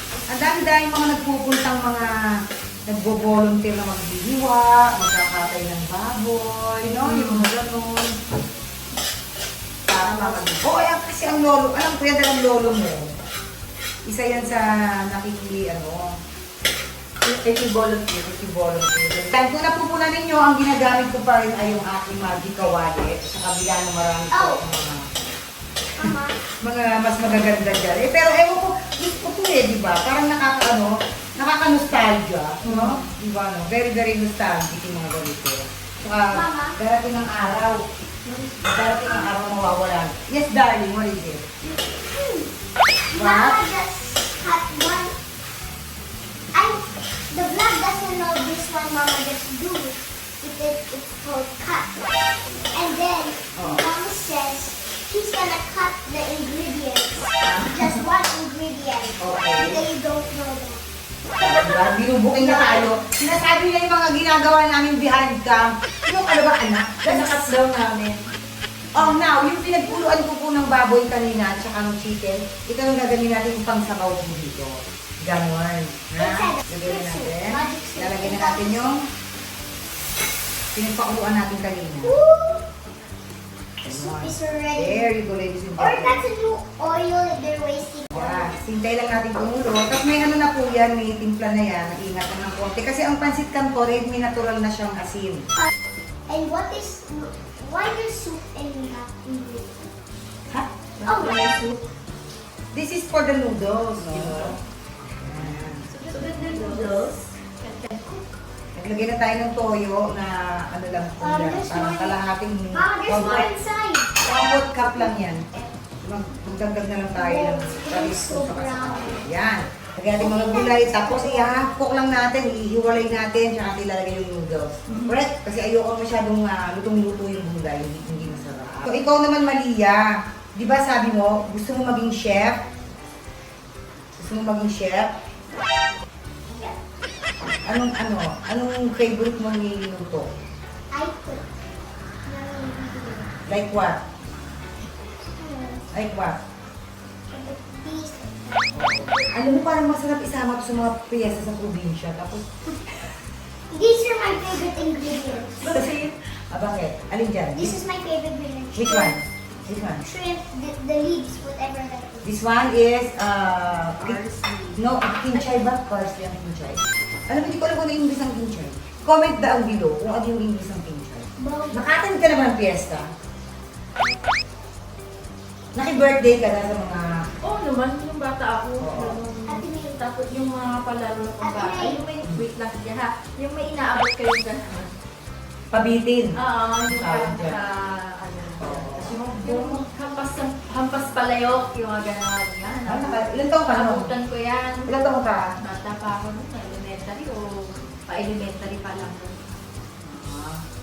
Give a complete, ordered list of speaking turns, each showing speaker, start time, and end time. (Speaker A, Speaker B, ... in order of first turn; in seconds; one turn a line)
Speaker A: 0.3-2.1
Speaker A: 2.9-8.1
Speaker B: 7.0-7.5
Speaker A: 9.9-13.1
Speaker B: 9.9-10.7
Speaker A: 14.1-16.1
Speaker B: 17.2-18.3
Speaker A: 18.2-25.1
Speaker C: 24.3-24.6
Speaker C: 26.0-26.4
Speaker A: 26.6-37.8
Speaker B: 32.6-33.1
Speaker C: 36.3-36.8
Speaker A: 38.6-41.4
Speaker C: 41.6-42.5
Speaker C: 43.1-45.1
Speaker A: 43.1-43.6
Speaker C: 46.5-52.0
Speaker C: 52.7-60.8
Speaker A: 53.5-53.8
Speaker B: 57.4-58.0
Speaker A: 59.2-59.9
Speaker A: 61.4-67.5
Speaker C: 62.3-62.9
Speaker B: 67.1-68.2
Speaker A: 69.0-79.0
Speaker C: 76.2-79.0
Speaker A: 80.7-82.2
Speaker C: 82.0-82.7
Speaker C: 83.8-85.1
Speaker A: 83.8-86.2
Speaker C: 85.8-88.6
Speaker A: 88.1-95.5
Speaker C: 96.3-99.9
Speaker B: 101.0-101.8
Speaker C: 101.1-101.4
Speaker A: 102.7-104.6
Speaker B: 104.1-104.6
Speaker A: 105.2-105.9
Speaker B: 105.9-108.1
Speaker C: 106.1-107.1
Speaker A: 108.8-113.5
Speaker C: 111.2-112.2
Speaker C: 112.7-114.2
Speaker A: 114.2-115.5
Speaker A: 116.0-132.6
Speaker C: 117.2-119.2
Speaker C: 120.2-121.6
Speaker A: 134.2-135.1
Speaker C: 136.5-136.8
Speaker A: 137.7-140.3
Speaker C: 140.9-141.4
Speaker C: 142.3-143.3
Speaker A: 143.5-144.0
Speaker C: 145.4-145.8
Speaker A: 145.9-146.4
Speaker C: 147.3-149.3
Speaker A: 148.7-152.8
Speaker C: 153.7-155.8
Speaker B: 155.6-156.1
Speaker A: 155.7-157.8
Speaker C: 157.6-159.2
Speaker A: 158.8-160.0
Speaker C: 160.0-162.3
Speaker A: 162.2-164.2
Speaker B: 164.0-164.8
Speaker A: 164.8-173.1
Speaker C: 171.4-171.9
Speaker A: 175.8-177.1
Speaker B: 177.4-184.9
Speaker A: 178.8-179.2
Speaker C: 179.5-180.0
Speaker C: 181.4-182.0
Speaker A: 185.7-186.4
Speaker B: 186.4-199.4
Speaker A: 186.9-187.6
Speaker A: 188.6-189.8
Speaker A: 192.9-194.1
Speaker A: 194.9-195.5
Speaker A: 200.2-200.6